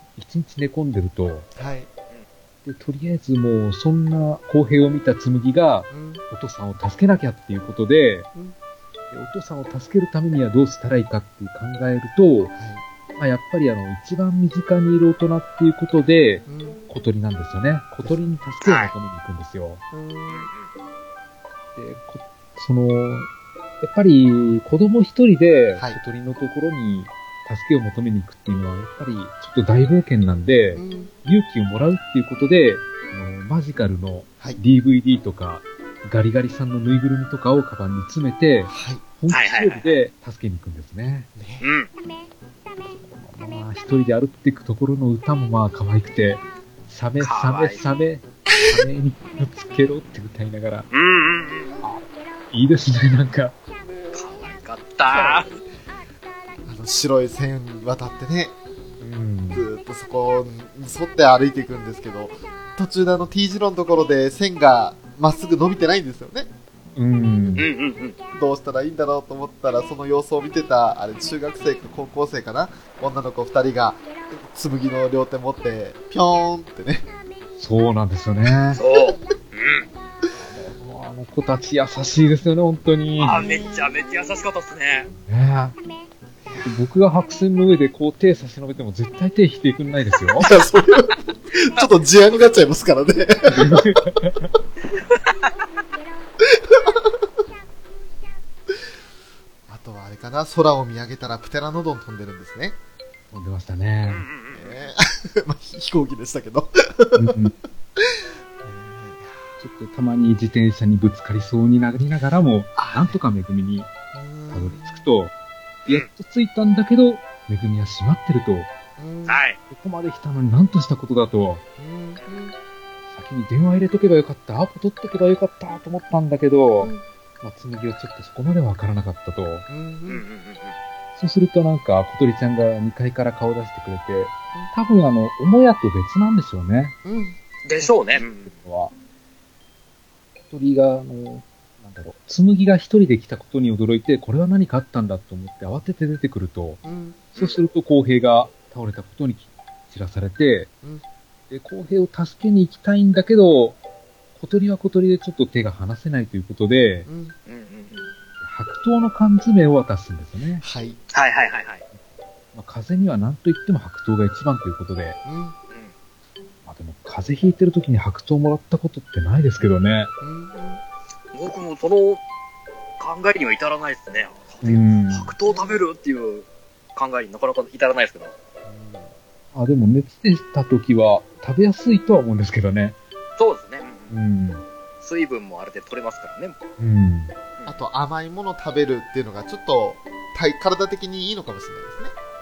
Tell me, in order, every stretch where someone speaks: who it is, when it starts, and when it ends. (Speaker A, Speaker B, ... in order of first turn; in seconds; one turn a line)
Speaker A: 0.2-1.5
Speaker B: 1.6-1.9
Speaker A: 2.6-8.3
Speaker B: 5.9-6.2
Speaker A: 9.1-12.5
Speaker B: 12.5-12.8
Speaker A: 13.2-19.8
Speaker B: 16.5-16.8
Speaker C: 18.6-18.9
Speaker B: 19.9-20.5
Speaker C: 20.3-20.7
Speaker A: 21.8-23.3
Speaker A: 23.8-41.3
Speaker B: 30.7-31.1
Speaker B: 38.7-39.0
Speaker C: 39.3-40.0
Speaker B: 41.4-41.7
Speaker C: 41.6-41.9
Speaker A: 42.9-50.9
Speaker C: 47.2-47.8
Speaker C: 50.9-51.8
Speaker A: 51.8-53.5
Speaker B: 53.9-54.2
Speaker C: 54.1-55.5
Speaker B: 55.1-55.6
Speaker B: 56.6-58.6
Speaker A: 59.0-59.6
Speaker B: 59.5-66.5
Speaker A: 67.0-67.7
Speaker C: 67.6-68.2
Speaker B: 68.3-77.1
Speaker A: 77.6-78.8
Speaker C: 78.8-79.9
Speaker A: 80.4-83.4
Speaker C: 83.2-85.1
Speaker B: 83.3-83.9
Speaker A: 85.2-85.8
Speaker B: 86.4-86.7
Speaker A: 86.6-90.5
Speaker B: 90.4-93.9
Speaker A: 93.5-94.5
Speaker B: 96.5-97.0
Speaker B: 99.7-102.8
Speaker A: 103.3-104.2
Speaker C: 104.1-104.8
Speaker B: 104.5-107.4
Speaker A: 107.1-107.5
Speaker B: 108.0-109.6
Speaker A: 109.6-113.9
Speaker B: 112.8-113.2
Speaker B: 114.1-115.1
Speaker A: 114.5-115.3
Speaker A: 115.9-118.7
Speaker B: 119.0-119.4
Speaker C: 119.3-119.6
Speaker A: 119.7-121.6
Speaker B: 121.8-122.5
Speaker A: 123.1-129.7
Speaker B: 126.8-127.0
Speaker B: 129.7-130.2
Speaker C: 130.1-130.8
Speaker A: 131.2-136.9
Speaker B: 137.0-138.2
Speaker C: 137.6-138.5
Speaker A: 138.4-138.9
Speaker A: 140.5-146.8
Speaker B: 146.8-147.3
Speaker A: 147.3-150.7
Speaker A: 151.5-153.8
Speaker A: 154.3-157.1
Speaker B: 157.1-157.3
Speaker C: 157.5-158.1
Speaker A: 158.4-160.6
Speaker B: 160.6-161.0
Speaker C: 161.1-161.8
Speaker A: 162.5-165.2
Speaker B: 165.2-165.6
Speaker A: 166.6-170.1
Speaker B: 170.2-170.8
Speaker C: 171.3-172.2
Speaker C: 173.0-178.3
Speaker A: 174.6-175.3
Speaker B: 175.4-175.8
Speaker B: 178.6-179.1
Speaker A: 179.5-183.0
Speaker C: 183.4-184.1
Speaker A: 184.1-184.6
Speaker C: 185.0-186.6
Speaker A: 186.8-187.3
Speaker B: 187.6-192.1